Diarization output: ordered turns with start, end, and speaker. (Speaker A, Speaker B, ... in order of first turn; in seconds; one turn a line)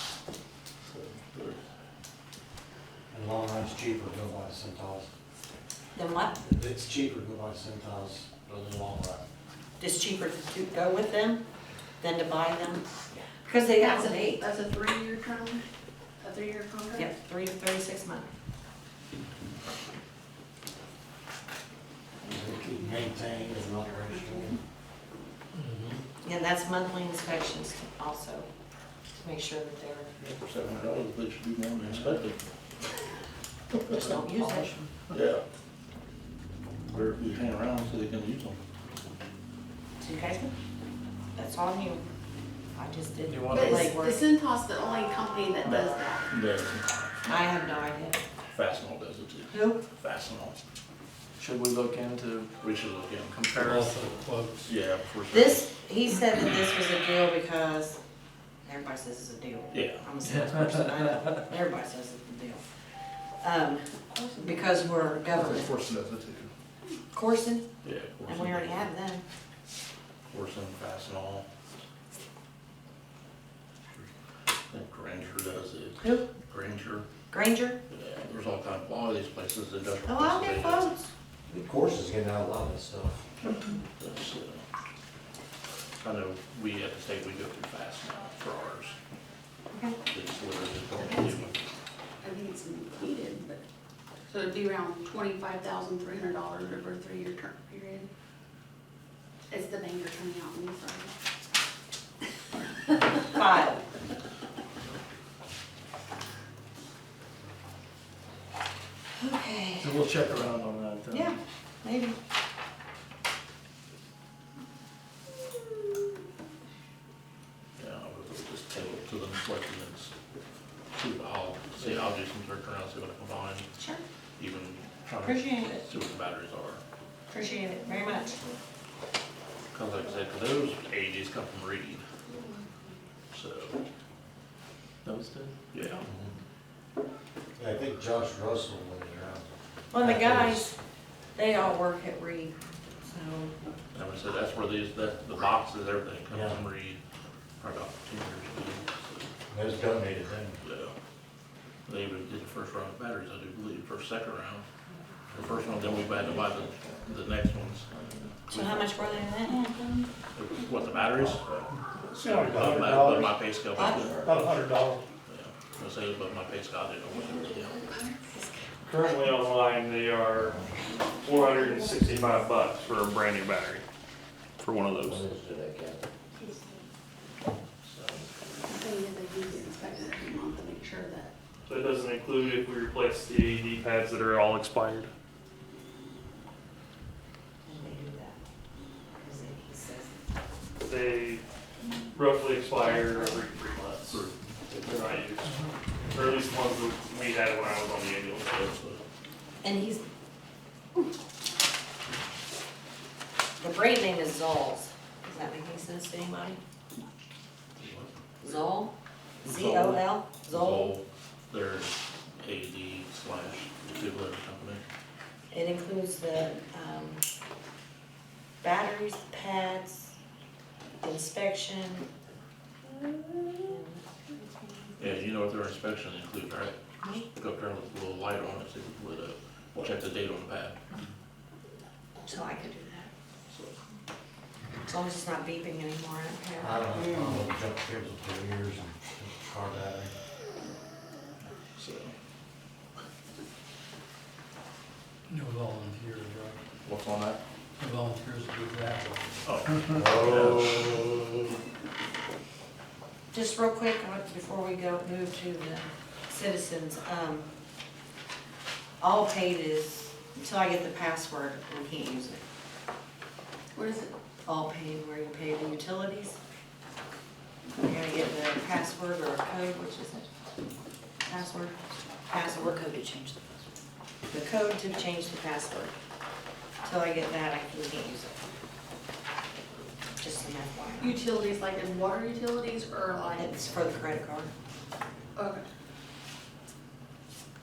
Speaker A: 0.8-1.6
Speaker B: 3.1-5.1
Speaker C: 5.9-6.4
Speaker B: 6.4-9.2
Speaker C: 9.8-11.4
Speaker C: 12.0-14.5
Speaker D: 13.7-15.6
Speaker D: 16.2-17.1
Speaker C: 16.9-18.3
Speaker B: 22.2-24.6
Speaker D: 23.5-24.3
Speaker E: 25.6-26.0
Speaker C: 26.2-28.5
Speaker C: 29.1-30.1
Speaker A: 30.2-32.4
Speaker C: 33.9-34.9
Speaker A: 35.1-35.4
Speaker A: 36.9-38.6
Speaker C: 40.0-40.5
Speaker C: 41.3-42.0
Speaker C: 42.8-44.3
Speaker F: 43.2-43.8
Speaker D: 43.5-46.3
Speaker A: 45.6-47.2
Speaker C: 47.2-48.2
Speaker A: 48.5-50.6
Speaker C: 49.5-49.8
Speaker F: 51.4-52.5
Speaker A: 52.6-53.6
Speaker E: 53.5-54.7
Speaker F: 53.6-54.3
Speaker A: 54.6-55.7
Speaker C: 55.3-58.0
Speaker C: 58.6-62.6
Speaker A: 59.7-60.1
Speaker C: 63.4-65.7
Speaker F: 65.4-65.7
Speaker A: 65.8-66.5
Speaker C: 67.1-67.7
Speaker A: 67.8-68.9
Speaker C: 68.2-69.2
Speaker A: 70.3-71.5
Speaker A: 74.7-77.1
Speaker C: 76.0-76.3
Speaker C: 77.3-77.8
Speaker A: 77.9-81.1
Speaker C: 80.0-81.1
Speaker B: 81.5-83.3
Speaker A: 84.0-84.6
Speaker A: 86.0-89.0
Speaker A: 90.1-91.6
Speaker D: 92.2-93.6
Speaker D: 94.3-98.1
Speaker D: 99.5-101.2
Speaker D: 102.9-103.2
Speaker C: 103.3-103.8
Speaker C: 109.2-110.0
Speaker F: 109.8-111.3
Speaker C: 111.1-112.2
Speaker A: 117.8-120.1
Speaker A: 120.9-123.7
Speaker A: 124.4-126.8
Speaker C: 125.2-125.8
Speaker C: 127.3-128.4
Speaker A: 129.7-132.1
Speaker D: 132.2-133.0
Speaker A: 133.3-133.8
Speaker F: 135.0-135.7
Speaker A: 135.7-136.1
Speaker B: 136.0-136.3
Speaker B: 137.6-139.4
Speaker C: 139.9-140.8
Speaker B: 139.9-140.7
Speaker C: 141.4-143.6
Speaker A: 143.9-147.0
Speaker B: 146.3-146.6
Speaker A: 147.6-149.3
Speaker B: 149.5-150.6
Speaker A: 150.6-150.9
Speaker A: 151.9-154.7
Speaker A: 155.3-157.9
Speaker B: 155.3-155.7
Speaker A: 158.5-159.2
Speaker C: 158.5-159.7
Speaker A: 160.3-164.4
Speaker G: 162.1-165.0
Speaker C: 163.8-164.2
Speaker A: 165.3-167.9
Speaker C: 167.9-168.5
Speaker H: 168.8-170.6
Speaker B: 170.3-170.7
Speaker H: 171.1-173.8
Speaker H: 174.6-175.2
Speaker B: 175.0-176.0
Speaker D: 176.4-176.8
Speaker A: 177.8-178.3
Speaker D: 178.6-181.3
Speaker H: 181.7-185.1
Speaker C: 187.7-188.4
Speaker C: 189.2-190.2
Speaker H: 190.8-191.4
Speaker H: 192.1-195.5
Speaker C: 192.8-193.6
Speaker A: 194.1-194.4
Speaker H: 196.1-198.8
Speaker A: 198.7-199.0
Speaker C: 199.6-200.0
Speaker C: 203.6-206.6
Speaker A: 207.8-208.1
Speaker C: 208.4-211.0
Speaker A: 210.4-214.8
Speaker C: 215.5-217.2
Speaker C: 218.6-220.2
Speaker C: 221.0-222.1
Speaker C: 223.6-225.2
Speaker A: 225.0-226.8
Speaker C: 227.0-227.3
Speaker A: 227.4-230.8
Speaker C: 232.2-233.1
Speaker A: 233.5-233.8
Speaker C: 234.8-237.2
Speaker B: 236.6-240.1
Speaker A: 241.7-242.1
Speaker E: 245.3-246.6
Speaker A: 246.8-247.4
Speaker E: 247.8-249.6
Speaker A: 249.4-251.0
Speaker B: 249.9-251.0
Speaker C: 253.3-257.5
Speaker C: 259.0-262.4
Speaker D: 263.7-264.1
Speaker C: 264.4-266.4
Speaker C: 267.8-270.3
Speaker C: 271.3-271.8
Speaker C: 272.3-272.9
Speaker C: 274.3-275.9
Speaker C: 276.8-278.5
Speaker C: 280.2-281.2
Speaker D: 281.0-283.6
Speaker C: 283.4-284.5
Speaker D: 285.4-285.7